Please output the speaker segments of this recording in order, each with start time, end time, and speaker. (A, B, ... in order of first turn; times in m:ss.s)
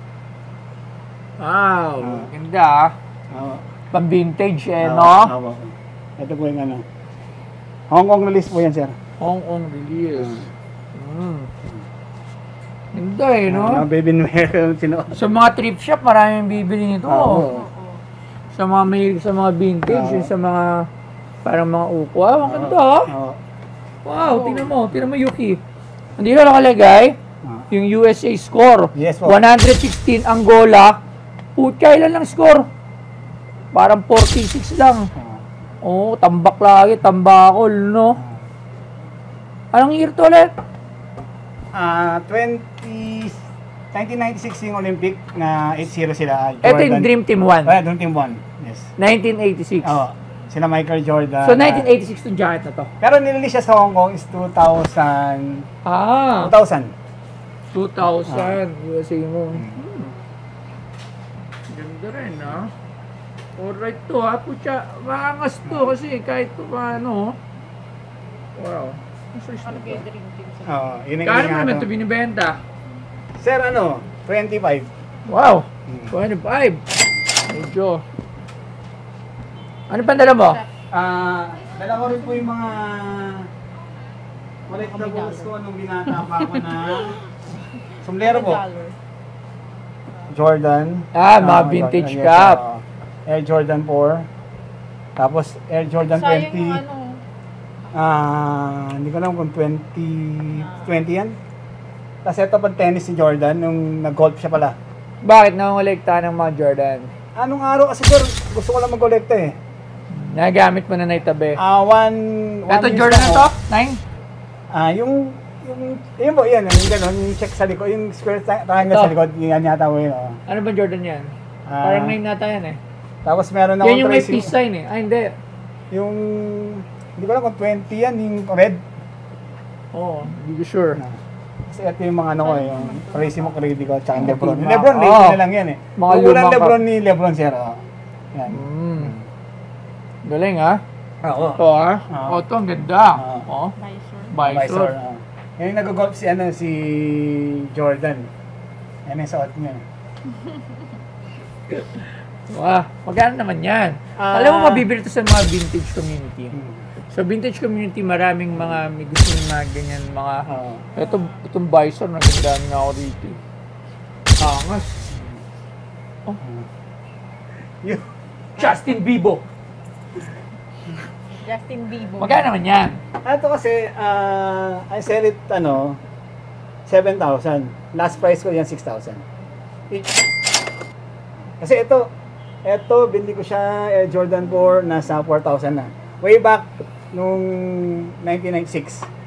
0:01.4-0:02.9 A
0:02.0-0:02.3 B
0:03.3-0:03.6 B
0:03.9-0:05.3 A
0:04.8-0:06.8 B
0:07.9-0:08.9 B
0:09.2-0:11.5 A
0:10.1-0:10.4 B
0:12.9-0:13.8 A
0:13.5-0:15.2 B
0:15.1-0:17.5 A
0:17.1-0:17.7 B
0:17.4-0:18.0 C
0:18.5-0:20.9 A
0:19.8-0:20.3 B
0:21.4-0:23.1 A
0:22.4-0:23.4 B
0:24.0-0:25.6 A
0:24.2-0:24.7 C
0:26.2-0:27.2 A
0:27.7-0:31.0 A
0:29.0-0:29.4 B
0:31.6-0:32.7 A
0:33.7-0:35.1 A
0:35.2-0:35.4 B
0:35.8-0:38.2 A
0:39.7-0:40.5 A
0:41.7-0:43.4 B
0:43.9-0:47.1 B
0:46.6-0:47.8 A
0:47.6-0:48.9 B
0:49.0-0:50.0 A
0:49.8-0:51.9 B
0:51.4-0:52.9 A
0:53.0-0:55.7 B
0:55.8-0:56.5 A
0:56.4-0:56.9 B
0:57.7-1:00.1 A
0:58.2-0:58.6 B
0:59.5-0:59.8 B
1:01.7-1:02.7 A
1:03.6-1:07.4 A
1:05.6-1:05.9 B
1:08.6-1:10.0 A
1:09.6-1:10.8 C
1:10.6-1:11.9 B
1:11.2-1:12.6 A
1:13.4-1:14.9 B
1:15.2-1:16.8 A
1:15.9-1:16.1 B
1:17.5-1:18.0 A
1:19.9-1:20.6 A
1:20.1-1:20.6 C
1:20.9-1:23.5 B
1:24.7-1:27.2 B
1:24.7-1:25.5 C
1:28.0-1:28.6 B
1:28.2-1:29.0 C
1:30.3-1:34.2 B
1:31.1-1:32.6 A
1:35.2-1:36.8 B
1:36.1-1:37.2 C
1:37.9-1:41.4 B
1:42.2-1:44.8 B
1:45.2-1:47.1 A
1:47.4-1:49.5 B
1:50.1-1:51.6 A
1:51.6-1:53.5 B
1:52.7-1:54.0 A
1:54.7-2:00.4 B
1:58.8-1:59.1 A
2:00.5-2:02.8 A
2:01.7-2:02.2 B
2:03.2-2:04.5 B
2:03.8-2:05.3 A
2:05.9-2:08.8 B
2:09.9-2:11.0 A
2:11.7-2:17.8 B
2:12.4-2:13.6 C
2:14.2-2:15.4 A
2:16.0-2:16.8 A
2:18.3-2:19.3 B
2:18.5-2:19.1 A
2:20.2-2:20.8 A
2:21.2-2:22.4 B
2:21.6-2:23.7 A
2:23.2-2:23.4 B
2:23.8-2:24.3 C
2:24.3-2:24.9 A
2:24.3-2:28.3 B
2:29.0-2:29.8 B
2:31.7-2:36.5 A
2:34.2-2:34.8 B
2:36.5-2:36.8 B
2:37.1-2:43.4 A
2:40.5-2:40.9 B
2:44.4-2:45.0 A
2:45.0-2:45.4 B
2:47.8-2:48.8 B
2:48.6-2:49.4 A
2:51.4-2:52.5 C
2:52.2-2:53.0 A
2:53.2-2:56.0 B
2:56.9-2:59.2 B
3:01.6-3:02.1 B
3:02.6-3:09.1 B